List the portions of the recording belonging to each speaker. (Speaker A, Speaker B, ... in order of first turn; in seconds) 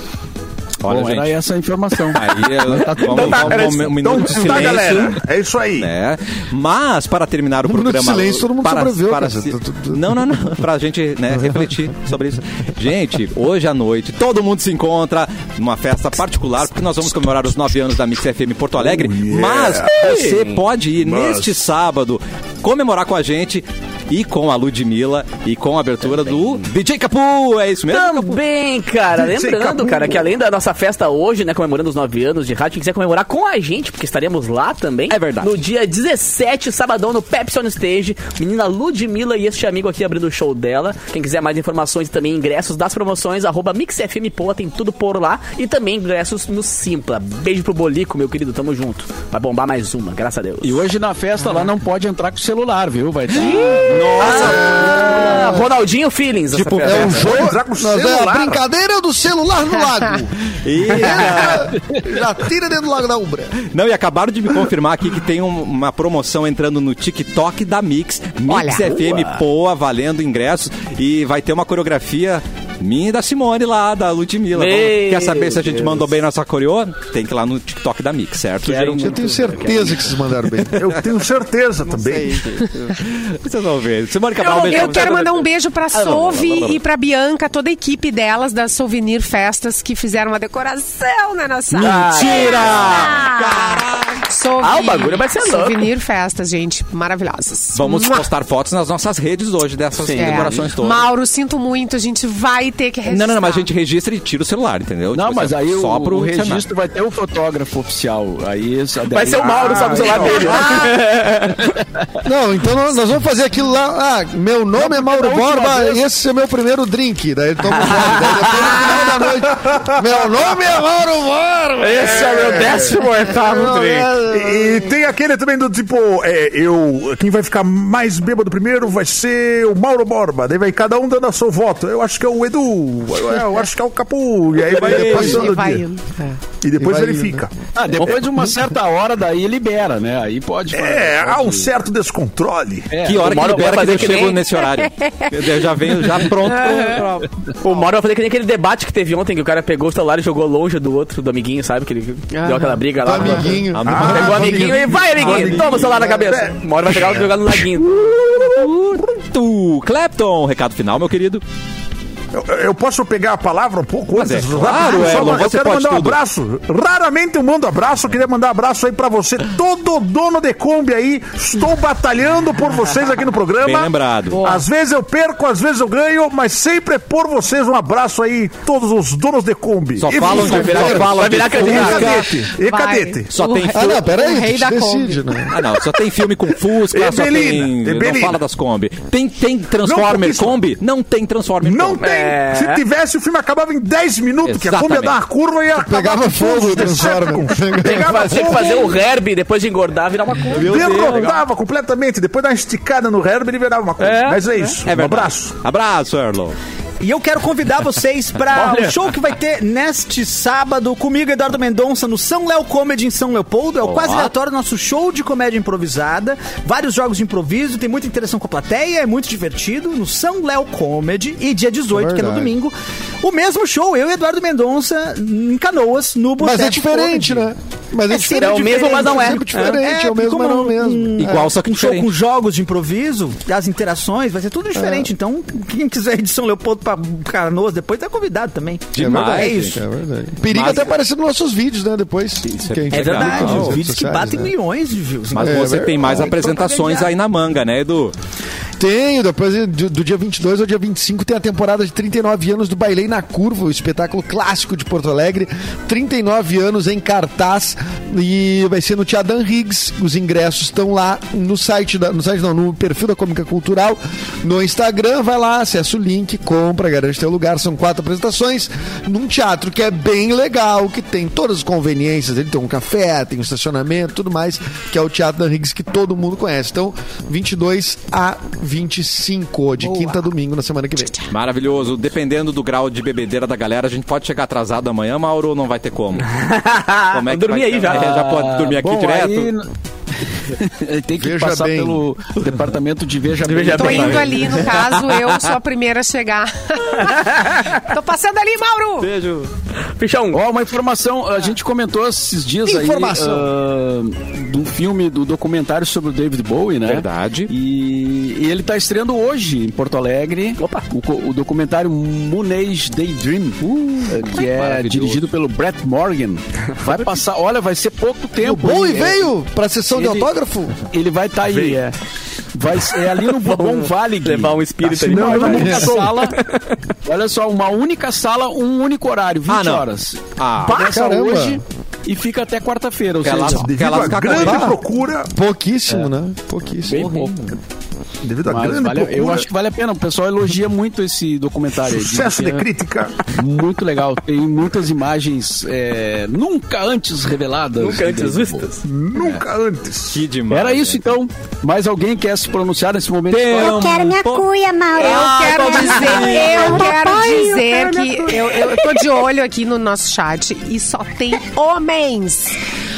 Speaker A: 0.8-1.3, 2.1-5.2, 5.8-28.4, 35.1-35.5, 53.7-55.2, 56.5-57.4, 60.6-61.7, 63.6-79.1, 81.9-86.8, 91.8-94.2, 97.7-101.1, 103.0-106.7, 110.3-110.9, 134.7-135.6, 143.0-147.3, 153.7-155.9, 157.9-161.4, 164.1-166.2, 173.6-174.4, 180.0-182.4, 183.3-184.1, 185.5-192.0, 194.4-195.2, 200.5-201.3, 204.8-206.6, 213.8-214.3, 231.2-232.1, 238.9-239.8, 240.5-240.9, 242.6-243.8, 245.3-248.1, 281.3-286.3, 287.1-289.5, 293.8-295.4, 299.0-299.5, 306.8-307.5, 313.6-315.3, 329.5-330.9, 333.2-334.7, 336.9-337.5, 349.1-349.4, 350.1-351.2, 353.3-354.4, 355.1-356.9
Speaker B: 0.9-3.5, 50.6-55.6, 105.1-111.0, 114.8-116.0, 137.7-141.7, 142.9-144.2, 287.9-289.7, 290.5-294.6, 300.3-319.3, 319.9-320.3, 320.9-321.9, 322.5-326.3, 327.1-334.2, 336.9-337.6, 338.4-342.7, 343.3-348.7, 350.5-353.9
Speaker C: 2.9-4.9, 19.9-20.6, 26.0-26.6, 27.9-50.9, 53.4-57.3, 68.8-69.4, 74.5-76.1, 78.6-80.2, 84.4-85.2, 91.7-93.2, 94.6-95.9, 100.0-100.7, 109.1-111.7, 117.7-119.0, 121.8-124.1, 143.2-144.4, 147.6-157.9, 180.2-182.1, 192.0-192.8, 197.8-201.4, 204.0-204.7, 208.5-209.0, 228.1-229.7, 286.2-288.2, 293.4-294.1, 297.2-297.8, 299.9-300.4, 310.6-310.9, 323.2-326.7, 330.6-330.9, 347.8-348.8, 355.0-359.0
Speaker D: 4.0-5.9, 18.8-19.9, 21.0-21.5, 29.2-30.3, 57.2-58.6, 80.7-82.4, 109.4-110.7, 119.6-120.0, 122.4-122.9, 124.3-135.7, 136.6-137.5, 140.7-142.9, 153.8-157.2, 162.3-183.3, 186.9-188.4, 189.8-190.6, 191.6-199.0, 200.6-205.5, 321.4-321.8, 325.1-326.2, 333.5-335.3, 338.2-339.4, 341.9-343.2, 348.8-350.2
Speaker E: 7.6-10.4, 54.4-55.6, 56.8-63.6, 79.0-80.9, 112.2-124.9, 134.8-135.8, 136.8-137.4, 153.0-154.9, 155.9-156.3, 180.3-181.0, 183.7-185.6, 195.8-198.6, 221.9-222.5, 226.4-231.5, 234.7-235.1, 239.0-244.5, 245.3-246.3, 248.8-281.2, 291.2-292.0, 318.4-320.8, 330.9-331.6, 334.3-334.8, 335.3-337.1
Speaker F: 68.5-68.9, 84.5-98.3, 100.0-103.7, 135.0-136.4, 144.7-145.4, 152.3-153.4, 174.4-174.6, 182.6-185.5, 293.7-299.1, 354.9-362.6
Speaker G: 207.0-227.5, 228.1-239.8, 240.5-240.8, 242.9-247.1, 302.6-303.5
Speaker H: 353.5-356.9